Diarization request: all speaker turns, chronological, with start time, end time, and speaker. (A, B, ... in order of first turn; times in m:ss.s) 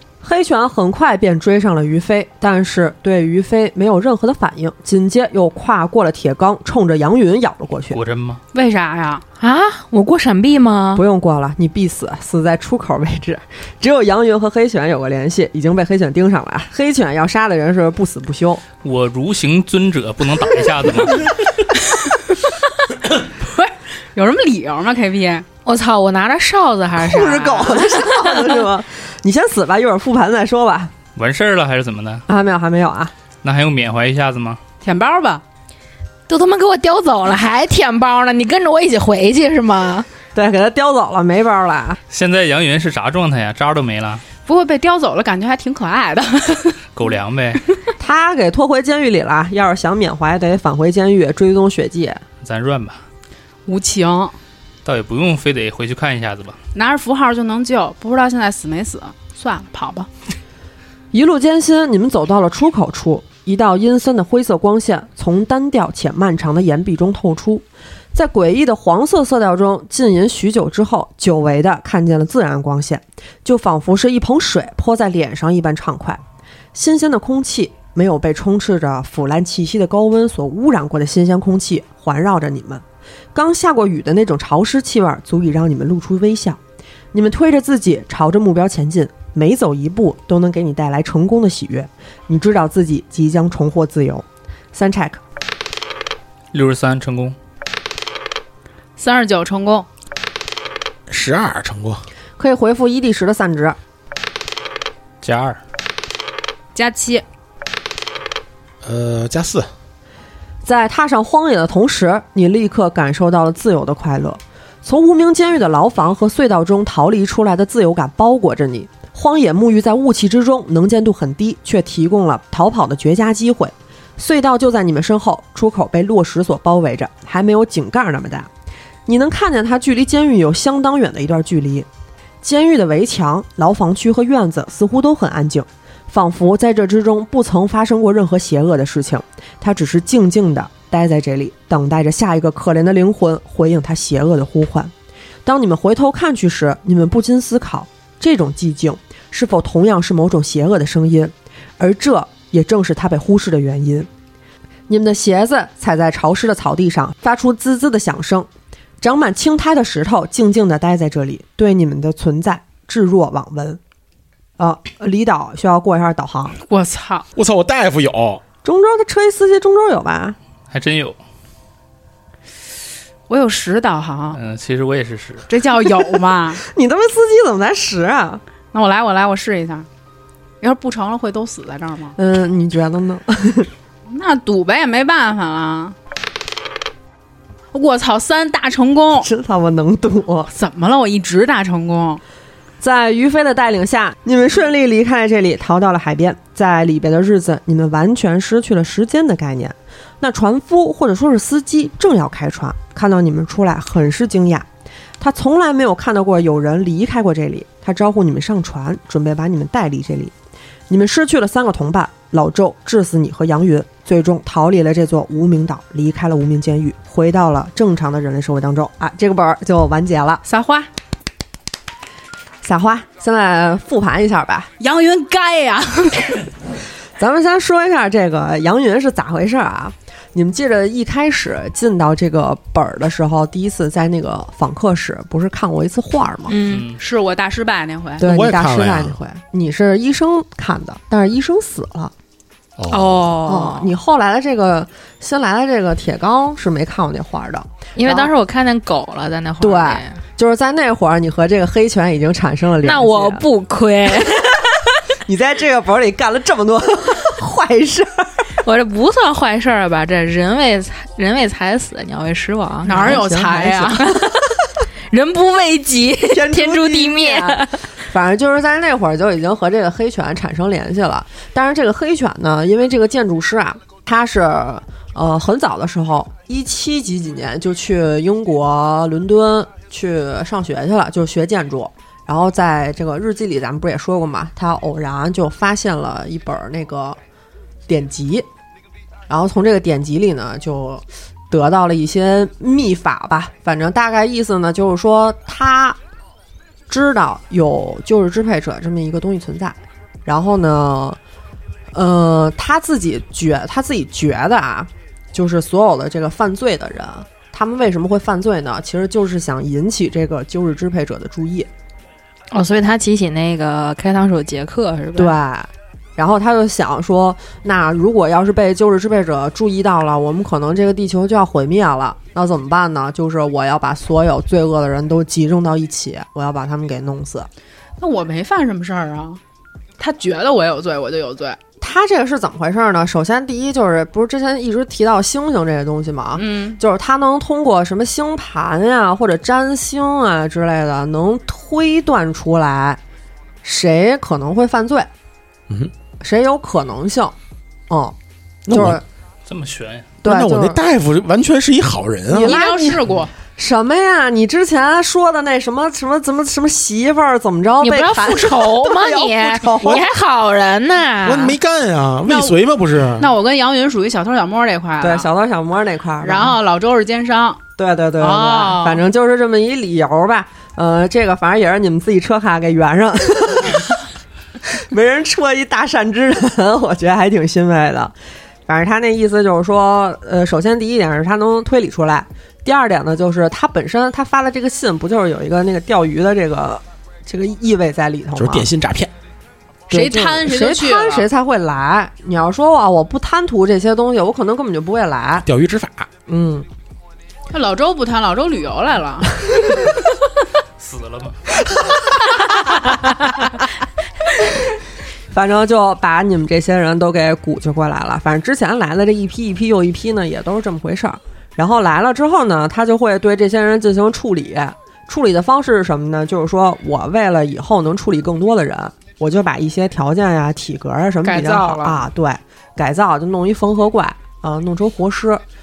0:00.2-0:08.0 A
0:07.9-0:08.4 B
0:08.5-0:09.2 C
0:09.4-0:11.0 D
0:11.0-0:18.6 A
0:18.8-0:21.3 B
0:21.8-0:22.2 C
0:23.1-0:25.4 C
0:25.6-0:28.3 D
0:27.0-0:30.9 A
0:31.2-0:32.2 B
0:32.3-0:33.1 A
0:33.4-0:34.6 B
0:34.8-0:35.4 C
0:36.3-0:40.1 D
0:40.4-0:42.0 A
0:42.1-0:44.2 B
0:44.4-0:46.8 C
0:47.0-0:47.6 B
0:48.0-0:52.2 A
0:52.4-0:53.0 B
0:53.7-0:54.4 C
0:54.8-0:56.6 B
0:56.7-1:00.1 C
1:01.1-1:16.2 A
1:16.7-1:26.6 A
1:27.1-1:35.2 A
1:36.5-1:37.4 B
1:39.0-1:39.9 C
1:41.1-1:42.0 E
1:42.4-1:43.8 A
1:45.2-1:45.6 B
1:46.8-1:47.2 C
1:48.8-1:49.7 E
1:50.6-2:08.5 A
2:09.1-2:11.9 A
2:12.4-2:24.9 A
2:25.4-2:34.1 A
2:34.9-2:38.5 A
2:39.0-2:43.8 A
2:44.6-2:46.6 A
2:46.7-2:47.3 C
2:47.4-2:48.4 E
2:48.6-2:50.4 A
2:50.7-2:51.2 B
2:53.3-2:54.4 C
2:54.3-2:55.5 B
2:55.5-2:56.6 C
2:56.6-2:58.4 A
2:58.7-2:59.9 C
3:00.6-3:02.2 C
3:02.2-3:03.7 A
3:04.1-3:06.0 C
3:07.7-3:09.3 C
3:09.2-3:10.5 A
3:10.5-3:12.2 C
3:12.8-3:24.7 A
3:25.2-3:30.3 A
3:30.9-3:40.4 A
3:40.4-3:40.9 C
3:42.6-3:44.7 A
3:44.8-3:46.5 C
3:47.2-3:56.5 A
3:56.5-3:56.9 D
3:56.7-3:57.0 B
3:57.0-3:58.2 C
3:58.2-3:59.2 E
3:58.2-4:02.1 A
4:02.8-4:03.3 E
4:02.9-4:03.9 D
4:03.4-4:08.3 A
4:08.0-4:10.2 D
4:09.6-4:13.4 A
4:12.8-4:14.9 D
4:15.2-4:18.3 A
4:18.6-4:24.5 D
4:22.8-4:24.1 C
4:22.9-4:24.0 A
4:25.1-4:27.9 D
4:26.3-4:47.2 A
4:47.9-4:48.5 A
4:49.3-4:56.0 A
4:56.9-5:01.2 A
5:01.9-5:11.7 A
5:12.5-5:15.4 D
5:15.2-5:27.5 A
5:28.0-5:29.4 C
5:30.0-5:31.6 C
5:31.8-5:43.0 A
5:36.4-5:36.8 C
5:43.6-5:45.1 A
5:46.2-5:47.4 A
5:47.9-5:49.0 A
5:48.7-5:49.0 E
5:49.5-5:50.1 B
5:50.2-5:52.6 E
5:50.2-5:50.8 A
5:52.3-6:00.0 A
5:52.3-5:53.3 C
5:57.8-6:01.6 D
6:01.2-6:03.3 E
6:02.3-6:02.6 C
6:03.2-6:05.3 C
6:05.0-6:06.6 A
6:06.2-6:07.6 C
6:07.8-6:14.0 A
6:08.2-6:09.0 C
6:14.6-6:18.2 A
6:18.7-6:28.7 A
6:28.4-6:29.1 E
6:29.9-6:35.5 A
6:29.9-6:31.3 C
6:35.5-6:36.1 E
6:36.3-6:36.7 A
6:37.5-6:39.5 C
6:40.8-6:41.4 B
6:45.3-7:05.4 A
7:01.2-7:02.0 C